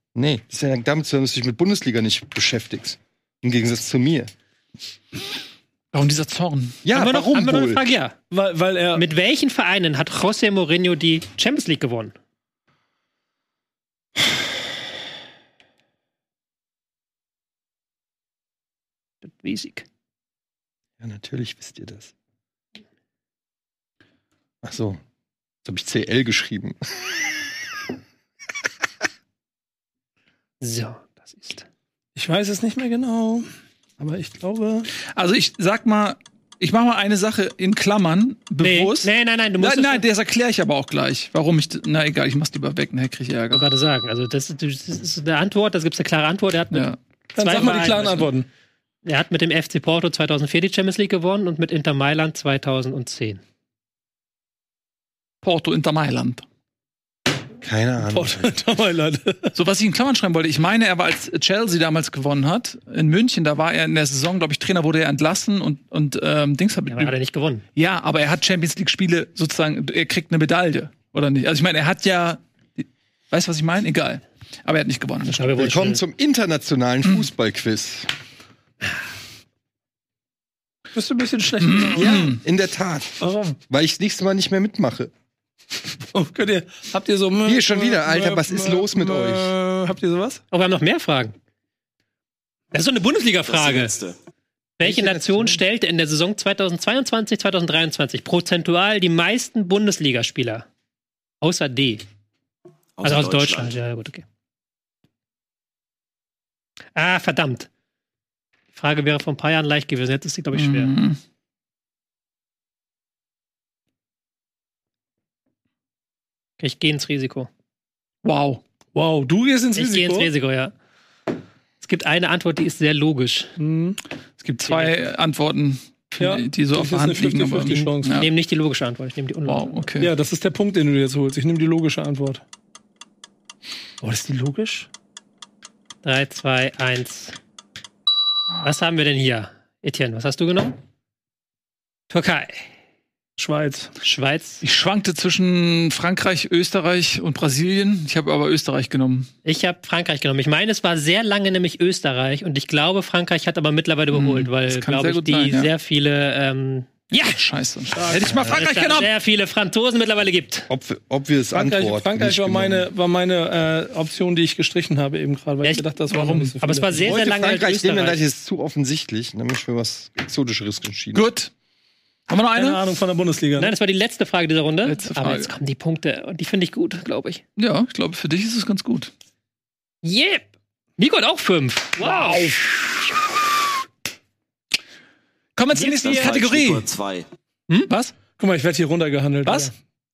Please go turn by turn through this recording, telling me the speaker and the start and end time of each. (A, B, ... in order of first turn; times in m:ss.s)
0:00.1-0:04.3 A
0:05.9-0:06.8 B
0:06.8-0:07.8 A
0:06.9-0:08.1 C
0:08.3-0:09.0 D
0:08.9-0:12.1 C
0:19.2-0:19.8 C
0:21.0-0:22.1 A
0:24.6-0:25.0 A
0:25.6-0:26.8 A
0:30.6-0:31.6 C
0:32.2-0:33.5 D
0:34.0-0:34.9 D
0:35.1-0:43.6 B
0:38.6-0:40.0 C
0:43.5-0:48.3 C
0:46.7-0:47.0 B
0:47.3-0:48.5 D
0:47.5-0:48.2 B
0:49.0-0:53.4 C
0:55.4-0:56.4 B
0:57.6-0:58.6 A
0:58.0-0:59.5 D
0:59.5-1:07.1 B
1:06.9-1:07.6 C
1:07.8-1:15.4 B
1:15.2-1:16.0 C
1:15.4-1:18.1 A
1:20.9-1:22.3 D
1:21.6-1:22.4 B
1:22.0-1:25.1 A
1:23.2-1:23.6 D
1:26.1-1:30.4 D
1:27.4-1:29.5 A
1:30.5-1:31.3 C
1:32.7-1:34.0 C
1:33.4-1:34.2 E
1:34.8-1:40.6 C
1:34.8-1:35.6 D
1:41.4-1:42.0 C
1:43.0-1:43.8 E
1:43.0-1:44.2 C
1:46.9-1:47.7 C
1:48.7-1:50.9 C
1:50.5-1:51.2 B
1:56.6-1:57.5 C
1:58.2-1:58.6 B
1:58.9-2:00.3 D
1:59.7-2:00.7 C
2:01.8-2:03.5 C
2:03.6-2:04.0 D
2:04.4-2:08.3 B
2:04.7-2:05.0 C
2:06.2-2:08.2 D
2:07.7-2:09.9 C
2:09.4-2:10.1 B
2:10.0-2:12.4 D
2:14.0-2:14.9 D
2:16.0-2:17.4 C
2:18.6-2:20.8 C
2:22.1-2:22.7 C
2:23.4-2:23.9 D
2:24.0-2:24.6 C
2:24.6-2:29.3 B
2:29.4-2:37.4 C
2:34.1-2:35.7 B
2:37.2-2:39.1 B
2:38.0-2:38.4 D
2:38.4-2:40.7 C
2:40.7-2:42.9 A
2:41.5-2:47.2 D
2:46.1-2:46.5 B
2:46.6-2:48.2 C
2:46.9-2:51.3 A
2:51.1-2:51.5 B
2:52.3-2:52.8 B
2:52.5-2:53.7 D
2:53.6-2:57.4 C
2:54.8-2:55.5 B
2:57.6-2:59.1 B
3:00.0-3:00.4 C
3:01.0-3:02.5 C
3:02.0-3:02.7 B
3:05.6-3:06.9 B
3:05.7-3:06.2 C
3:05.8-3:07.2 E
3:07.9-3:08.1 B
3:08.4-3:09.7 D
3:09.4-3:09.7 B